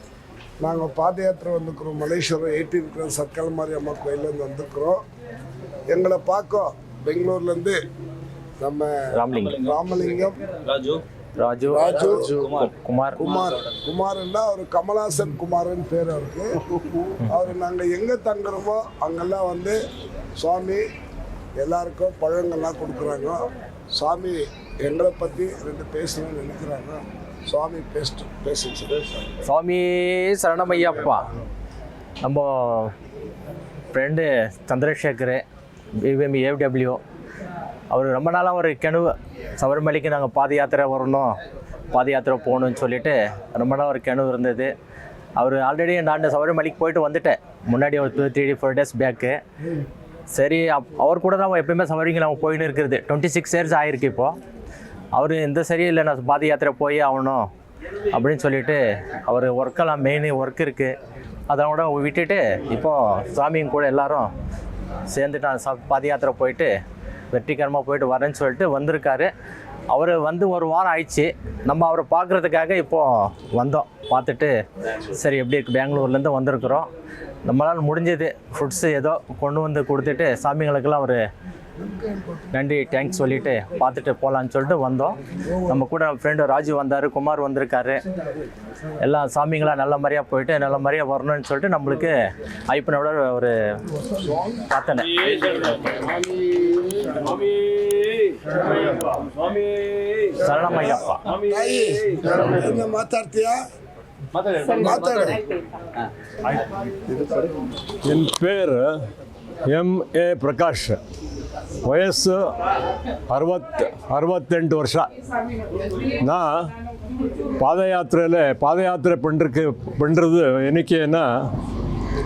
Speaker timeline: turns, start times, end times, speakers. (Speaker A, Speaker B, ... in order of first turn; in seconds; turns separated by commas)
Speaker A: 0.6-5.0, Speaker A: 5.9-7.8, Speaker A: 8.6-8.9, Speaker B: 9.1-9.6, Speaker A: 9.6-10.4, Speaker B: 11.4-13.2, Speaker A: 11.7-12.3, Speaker A: 13.2-16.6, Speaker A: 17.3-19.8, Speaker A: 20.4-20.8, Speaker A: 21.6-23.4, Speaker A: 23.9-29.0, Speaker B: 29.4-31.2, Speaker B: 32.2-32.9, Speaker B: 33.9-35.4, Speaker B: 36.0-37.0, Speaker B: 37.9-41.3, Speaker B: 41.9-44.7, Speaker B: 45.4-49.4, Speaker B: 50.3-54.3, Speaker B: 55.1-57.5, Speaker B: 58.1-60.9, Speaker B: 61.5-64.3, Speaker B: 65.1-66.7, Speaker B: 67.3-69.3, Speaker B: 69.9-74.5, Speaker B: 75.1-76.9, Speaker B: 77.5-81.2, Speaker A: 81.8-82.5, Speaker B: 82.5-88.0, Speaker B: 89.0-92.1, Speaker B: 92.7-93.5, Speaker B: 94.7-95.3, Speaker A: 96.6-97.2, Speaker B: 100.4-101.2, Speaker A: 101.4-103.6, Speaker A: 104.6-105.5, Speaker C: 108.0-108.9, Speaker C: 109.7-111.0, Speaker C: 111.8-112.5, Speaker C: 113.3-115.1, Speaker C: 116.2-116.7, Speaker C: 117.6-121.5